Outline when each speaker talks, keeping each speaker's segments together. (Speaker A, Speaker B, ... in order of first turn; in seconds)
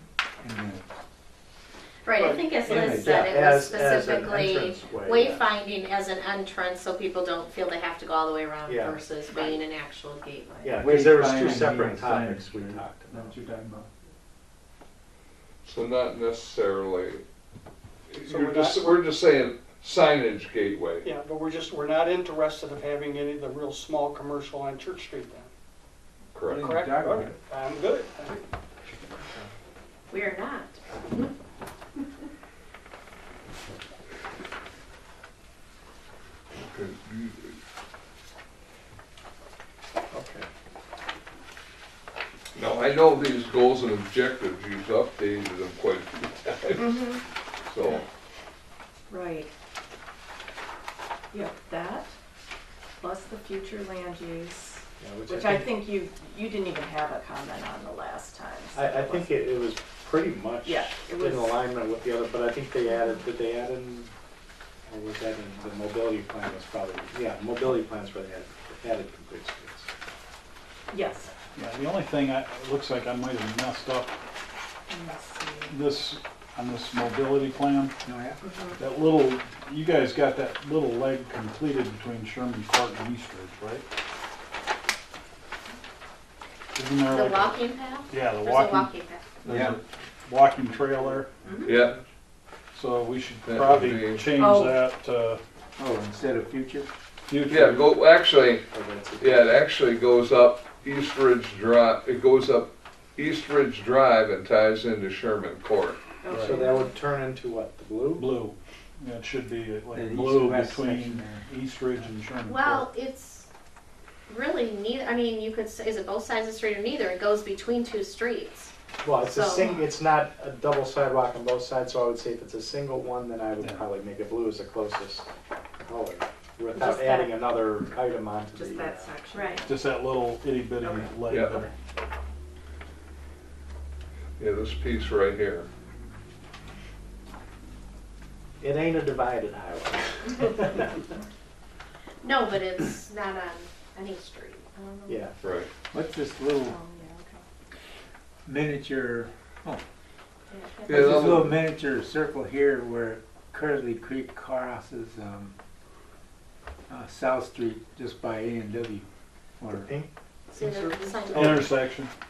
Speaker A: 0.4-0.9, 2.6-3.4, 10.8-13.9, 26.5-27.4, 78.0-78.4, 89.5-89.8, 95.8-96.9, 109.9-112.1, 145.9-146.8, 148.4-149.8, 150.9-155.5, 156.9-159.1, 159.6-159.9
Speaker B: 2.0-10.8, 26.7-27.2, 30.1-31.3, 87.1-89.5, 112.4-113.5, 114.3-119.8, 129.3-129.6, 142.2-145.3, 150.5-151.5, 160.5-161.8
Speaker C: 2.1-2.6, 18.2-19.1, 21.0-25.5, 26.5-28.4, 160.6-161.6
Speaker D: 3.1-5.5, 8.7-9.0, 10.6-13.3, 40.1-40.5, 55.0-55.8, 58.7-64.1, 64.9-69.9, 91.7-92.0, 98.7-99.6, 106.3-108.2, 119.0-125.3, 125.8-129.1, 138.6-140.9, 145.1-145.4, 159.7-160.1
Speaker E: 9.3-9.6, 46.7-47.2, 49.1-49.5, 51.3-52.1, 53.0-59.4, 60.6-61.6, 62.9-63.2, 70.9-71.3, 74.9-75.7, 78.4-78.7, 94.4-94.8, 106.2-106.9, 126.7-127.4, 128.5-129.8, 130.8-131.7, 146.6-147.4
Speaker F: 15.6-17.2, 18.1-21.1, 26.3-26.7, 36.5-37.5, 42.5-48.0, 91.6-92.0, 93.4-94.3, 97.5-98.6, 99.2-106.0, 131.3-131.6, 134.4-135.7, 145.4-145.7, 150.9-151.6
Speaker G: 71.5-74.1, 75.7-77.9, 78.8-83.8, 86.7-91.3, 92.7-95.4, 97.3-97.9, 106.3-106.7, 108.2-112.9, 129.6-131.7, 161.3-162.1